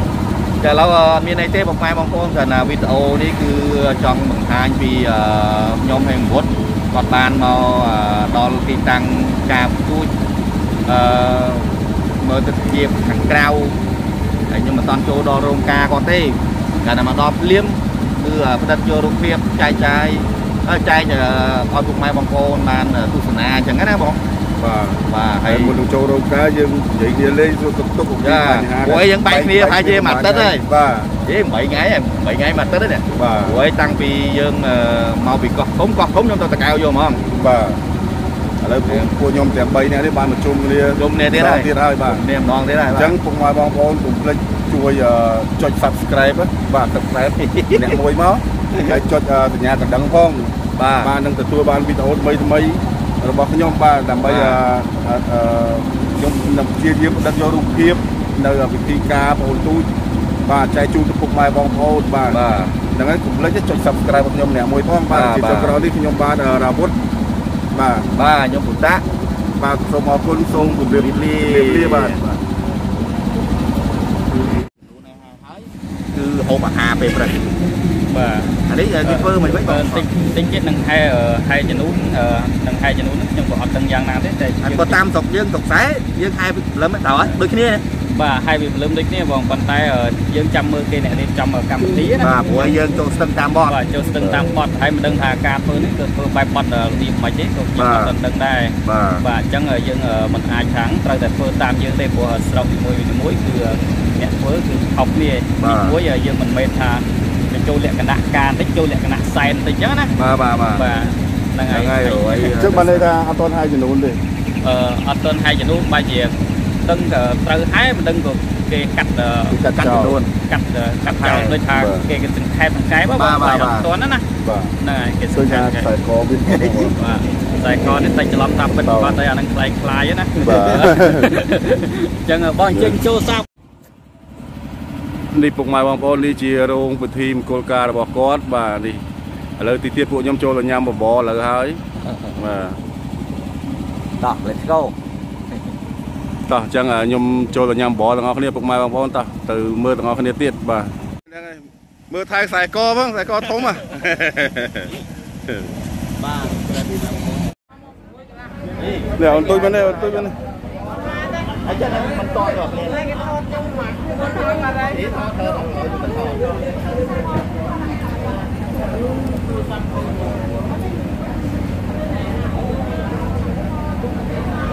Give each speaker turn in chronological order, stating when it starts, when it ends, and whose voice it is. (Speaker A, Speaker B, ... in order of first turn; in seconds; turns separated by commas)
Speaker A: 0.6-10.1, Speaker A: 10.8-13.8, Speaker A: 14.5-24.2, Speaker B: 24.6-31.1, Speaker A: 25.1-25.8, Speaker A: 28.2-30.6, Speaker A: 31.2-37.2, Speaker B: 33.1-33.6, Speaker B: 37.3-37.8, Speaker B: 38.6-42.2, Speaker A: 38.9-39.1, Speaker A: 41.0-43.1, Speaker B: 42.9-59.9, Speaker A: 47.4-48.0, Speaker A: 50.8-51.1, Speaker A: 54.2-54.6, Speaker B: 60.5-62.4, Speaker A: 62.3-62.8, Speaker B: 62.9-66.9, Speaker A: 65.1-65.8, Speaker B: 67.7-68.1, Speaker A: 68.1-69.0, Speaker B: 69.6-72.4, Speaker A: 70.5-72.2, Speaker A: 74.8-77.5, Speaker C: 78.1-85.0, Speaker A: 78.7-80.1, Speaker A: 84.6-87.8, Speaker C: 88.1-92.6, Speaker A: 92.2-93.8, Speaker C: 93.7-110.1, Speaker B: 94.2-94.4, Speaker B: 97.8-98.0, Speaker A: 97.8-98.1, Speaker A: 98.8-99.2, Speaker A: 105.6-106.0, Speaker A: 110.1-110.9, Speaker C: 110.7-112.5, Speaker A: 111.7-113.1, Speaker B: 112.5-114.2, Speaker C: 114.6-124.2, Speaker A: 119.5-120.3, Speaker B: 119.5-120.2, Speaker A: 121.0-121.6, Speaker B: 121.6-122.1, Speaker A: 123.0-123.9, Speaker B: 124.4-124.7, Speaker C: 124.8-125.9, Speaker B: 125.3-127.0, Speaker A: 126.5-126.9, Speaker C: 126.9-133.4, Speaker B: 128.7-129.2, Speaker B: 130.4-131.3, Speaker B: 132.7-133.0, Speaker B: 135.3-139.0, Speaker B: 139.6-141.8, Speaker B: 142.3-142.8, Speaker A: 144.2-144.9, Speaker B: 146.5-154.9, Speaker A: 156.2-157.3, Speaker A: 158.8-160.2, Speaker B: 159.2-160.3, Speaker A: 161.5-163.6, Speaker A: 164.7-166.7